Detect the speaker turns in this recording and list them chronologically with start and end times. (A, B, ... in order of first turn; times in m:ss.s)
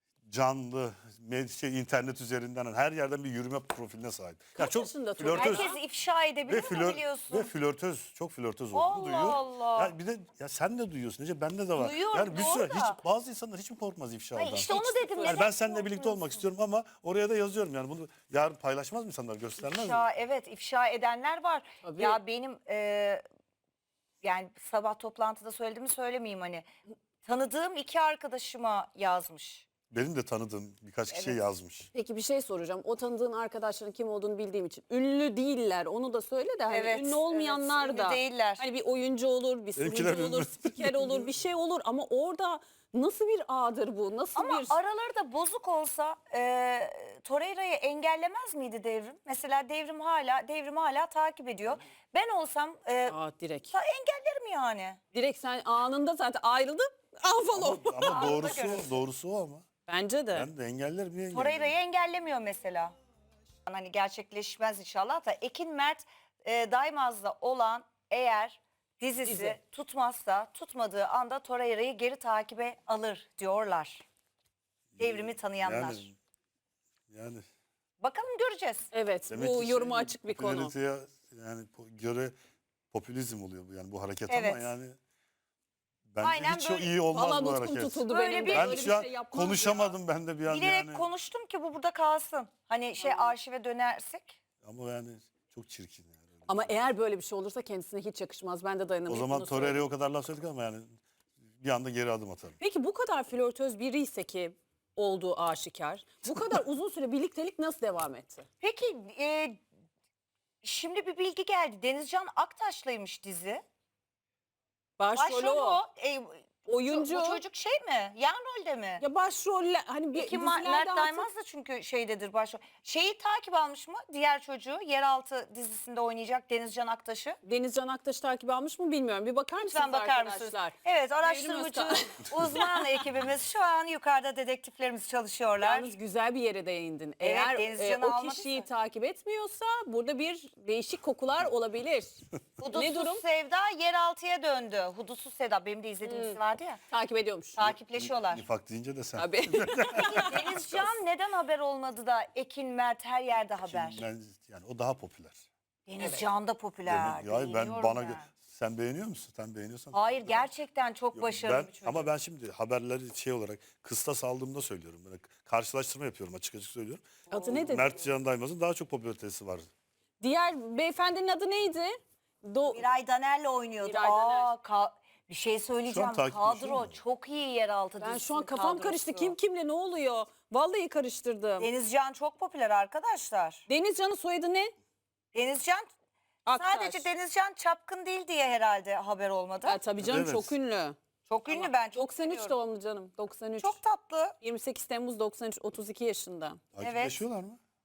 0:00.2-0:05.7 A
0:04.6-0:05.8 B
0:05.3-0:07.5 C
0:06.5-0:20.1 A
0:08.7-0:10.0 C
0:11.8-0:13.0 C
0:14.4-0:16.4 C
0:14.6-0:15.5 B
0:19.6-0:23.2 C
0:21.8-0:22.2 B
0:24.2-0:26.7 C
0:27.2-0:29.7 C
0:29.9-0:31.9 A
0:31.1-0:31.4 C
0:31.9-0:44.8 B
0:36.7-0:38.6 C
0:39.8-0:41.3 A
0:44.4-0:53.2 C
0:53.1-0:53.7 B
0:53.7-0:55.0 C
0:55.1-0:58.6 B
0:57.5-0:59.6 A
0:58.0-0:58.9 C
0:59.9-1:00.5 B
1:00.3-1:01.7 A
1:01.3-1:02.9 C
1:03.7-1:14.0 C
1:09.3-1:09.6 B
1:14.9-1:16.2 A
1:15.0-1:16.1 C
1:17.1-1:17.5 A
1:18.0-1:18.9 C
1:18.9-1:20.7 B
1:19.3-1:22.4 A
1:22.9-1:25.0 A
1:24.3-1:24.7 C
1:26.1-1:31.0 A
1:26.2-1:27.0 C
1:27.1-1:29.9 B
1:28.1-1:28.9 C
1:30.5-1:34.4 C
1:33.0-1:33.4 B
1:34.6-1:36.7 A
1:36.5-1:39.8 B
1:39.1-1:41.0 A
1:41.6-1:42.6 A
1:42.6-1:48.5 B
1:48.6-1:49.6 C
1:50.6-1:53.6 C
1:55.0-1:55.8 B
1:55.2-1:59.0 C
1:56.7-1:57.4 B
1:59.0-2:01.3 B
2:00.1-2:07.4 C
2:07.4-2:12.7 B
2:09.6-2:15.9 C
2:15.6-2:22.2 B
2:17.2-2:18.7 C
2:22.6-2:26.8 C
2:22.7-2:23.2 B
2:26.0-2:27.7 B
2:27.6-2:28.4 C
2:28.0-2:30.6 A
2:29.2-2:31.0 B
2:30.0-2:34.0 C
2:33.6-2:35.4 A
2:35.9-2:38.3 C
2:36.0-2:36.2 B
2:36.9-2:40.5 A
2:39.9-2:42.1 C
2:41.2-2:49.7 A
2:47.3-2:48.0 B
2:47.3-2:47.9 C
2:50.2-2:52.9 B
2:52.7-2:59.4 C
2:53.8-2:54.5 B
2:55.9-2:57.0 A
2:58.0-3:01.7 B
3:01.6-3:03.6 C
3:03.7-3:04.7 B
3:05.3-3:05.9 C
3:06.4-3:07.0 B
3:06.6-3:09.8 C
3:09.6-3:13.8 B
3:10.0-3:10.5 A
3:11.3-3:12.6 C
3:13.6-3:14.4 C
3:14.4-3:16.6 B
3:16.8-3:17.6 A
3:16.8-3:17.2 C